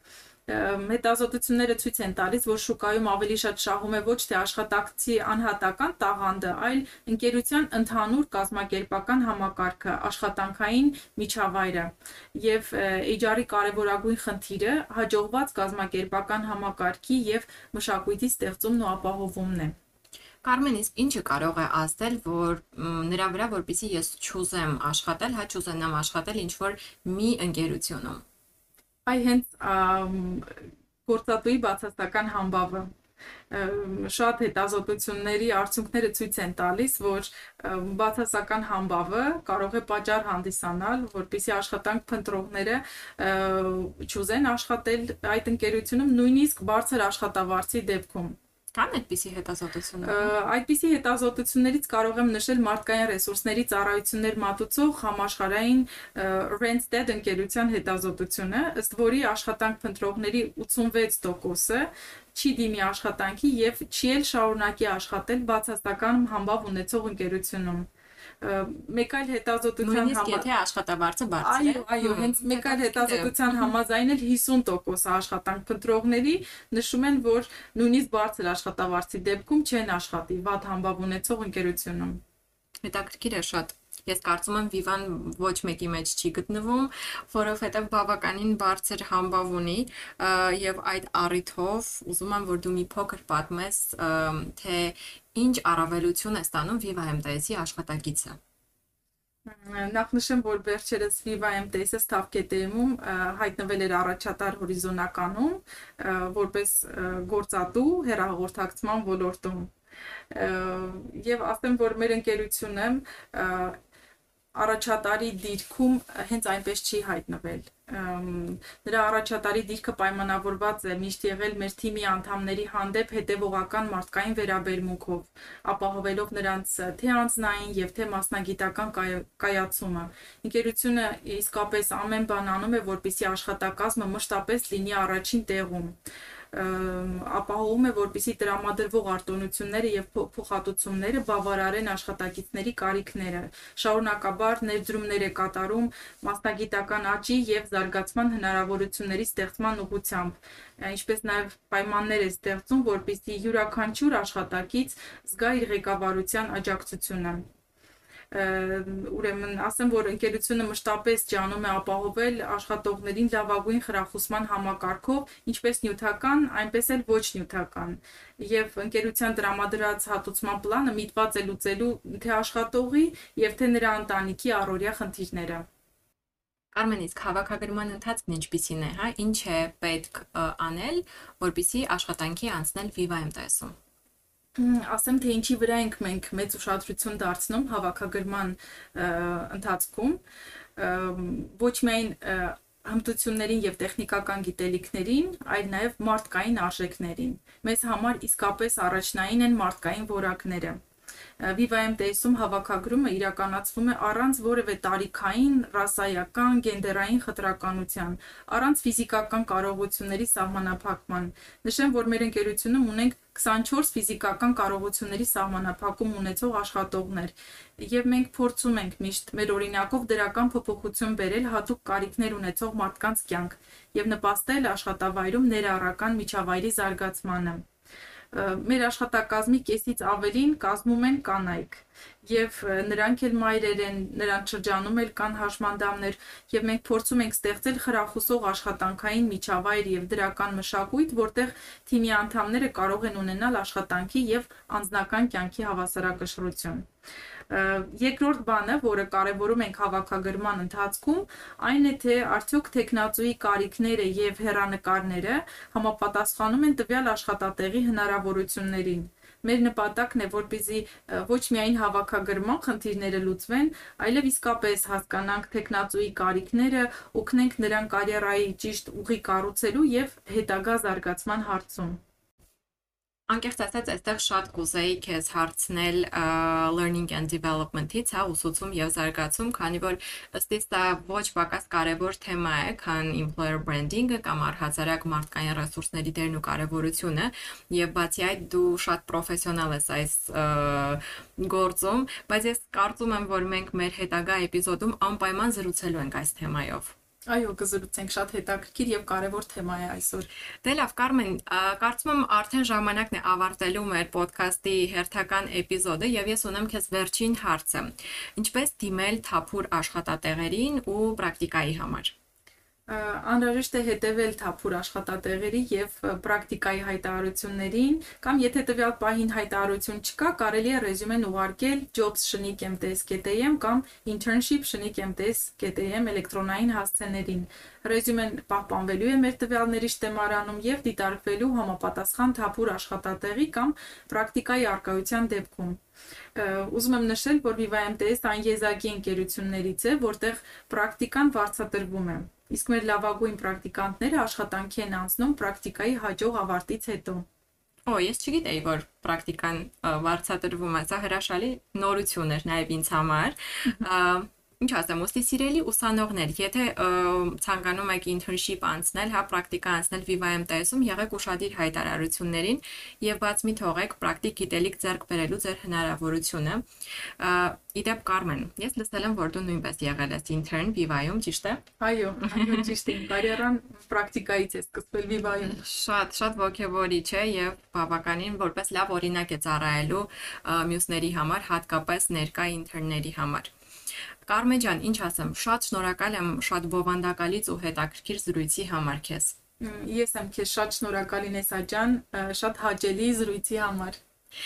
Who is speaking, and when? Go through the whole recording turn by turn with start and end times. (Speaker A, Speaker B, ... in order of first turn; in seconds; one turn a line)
Speaker A: 0.5-19.8
Speaker B: 20.4-28.2
Speaker A: 29.1-32.9
Speaker A: 33.5-48.4
Speaker B: 48.7-50.3
Speaker A: 50.0-67.9
Speaker A: 68.4-70.5
Speaker B: 69.8-73.7
Speaker A: 71.4-82.2
Speaker B: 82.8-98.4
Speaker A: 99.5-109.7
Speaker A: 110.3-113.8
Speaker A: 114.5-136.0
Speaker A: 136.5-157.5
Speaker A: 158.3-175.7
Speaker B: 176.7-183.8
Speaker A: 184.6-190.2
Speaker A: 190.8-200.8
Speaker A: 201.4-227.7
Speaker A: 228.3-246.9
Speaker A: 247.5-272.0
Speaker B: 273.3-296.9
Speaker A: 297.3-300.3
Speaker B: 300.6-312.1
Speaker A: 312.9-335.8
Speaker A: 336.4-347.3
Speaker B: 347.9-366.6
Speaker B: 367.2-371.6
Speaker A: 371.8-375.6
Speaker B: 372.2-373.1
Speaker B: 375.4-383.5
Speaker B: 384.3-389.4
Speaker A: 389.6-394.0